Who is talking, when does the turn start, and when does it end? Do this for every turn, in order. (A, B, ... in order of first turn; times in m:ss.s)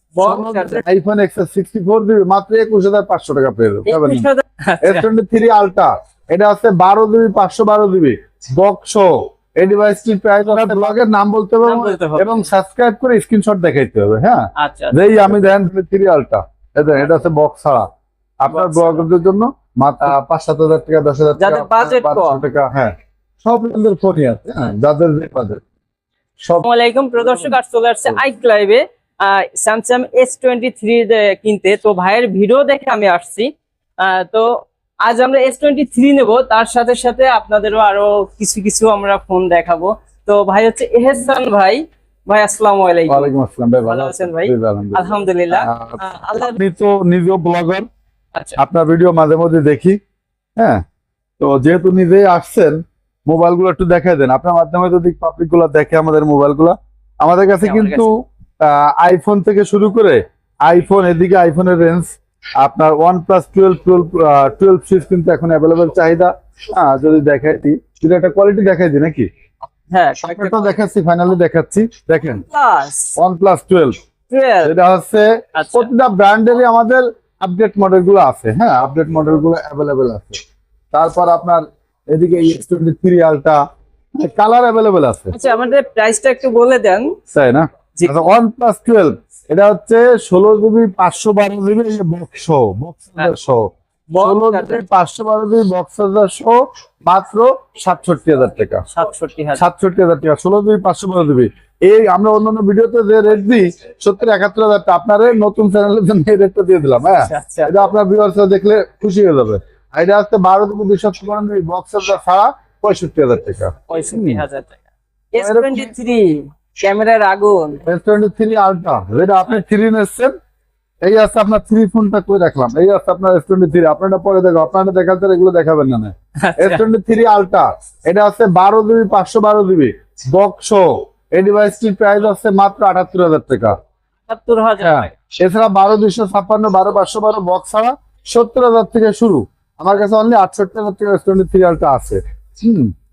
0:00.1-0:00.8 A
0:00.2-0:04.2 B
0:03.9-0:05.1 A
0:04.8-0:17.9 B
0:10.5-0:11.0 A
0:11.6-0:12.4 A
0:14.6-0:15.5 A
0:18.4-0:25.6 B
0:18.5-0:19.0 A
0:21.4-0:22.4 A
0:26.6-0:43.3 A
0:27.2-0:27.5 B
0:43.1-0:47.8 B
0:43.8-0:46.6 A
0:48.6-0:50.0 B
0:50.6-0:50.8 B
0:51.4-1:09.3 B
0:57.6-0:58.0 A
1:09.9-1:10.8 A
1:10.2-1:12.4 B
1:12.4-1:13.1 A
1:13.2-1:14.0 B
1:14.3-1:14.7 A
1:14.6-1:20.4 B
1:15.6-1:15.9 A
1:20.9-1:23.6 B
1:24.2-1:25.3 B
1:25.3-1:27.1 A
1:27.3-1:33.7 B
1:28.0-1:28.3 A
1:34.1-1:34.8 A
1:34.2-1:38.8 B
1:38.9-1:39.6 A
1:39.6-1:54.4 B
1:47.2-1:47.7 A
1:53.9-1:54.8 A
1:55.3-1:57.8 A
1:55.4-1:55.9 B
1:57.8-2:00.3 B
2:01.0-2:13.8 B
2:06.4-2:06.8 A
2:14.3-2:15.1 A
2:14.8-2:22.9 B